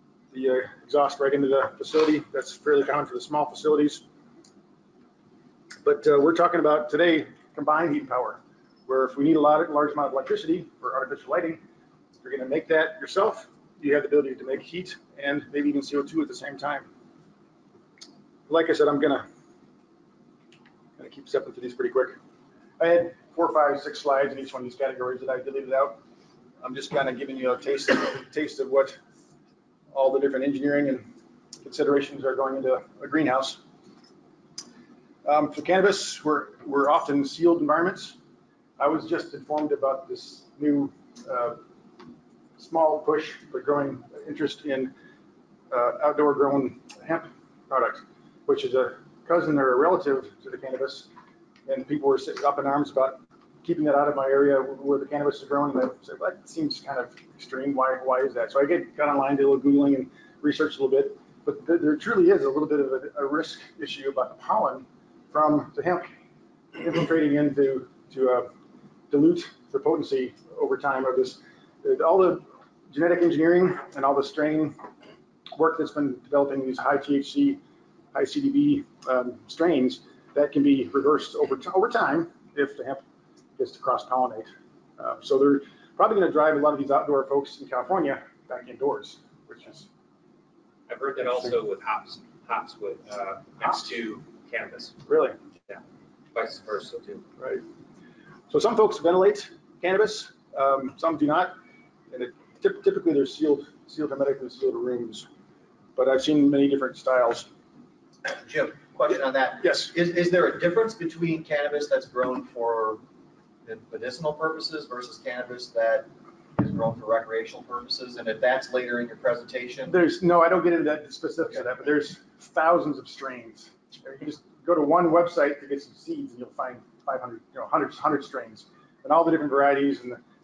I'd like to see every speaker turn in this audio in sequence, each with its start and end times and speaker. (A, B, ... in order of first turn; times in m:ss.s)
0:00.3-0:04.0 A
0:05.8-0:11.6 A
0:12.2-0:16.9 A
0:18.5-0:19.3 A
0:21.0-0:22.2 A
0:22.8-0:26.0 A
0:26.6-0:29.0 A
0:29.9-0:31.1 A
0:31.6-0:33.6 A
0:35.2-0:38.2 A
0:38.8-0:41.6 A
0:42.6-0:44.9 A
0:45.7-0:51.1 A
0:51.7-1:06.1 A
1:06.8-1:08.5 A
1:09.1-1:14.8 A
1:15.5-1:17.6 A
1:18.1-1:23.0 A
1:23.6-1:29.9 A
1:30.9-1:35.0 B
1:35.1-1:35.4 A
1:36.3-1:37.2 B
1:38.5-1:41.6 A
1:42.1-1:45.2 A
1:46.0-1:47.5 A
1:48.3-1:53.0 C
1:49.6-1:49.9 A
1:53.6-1:59.9 C
1:59.9-2:10.2 A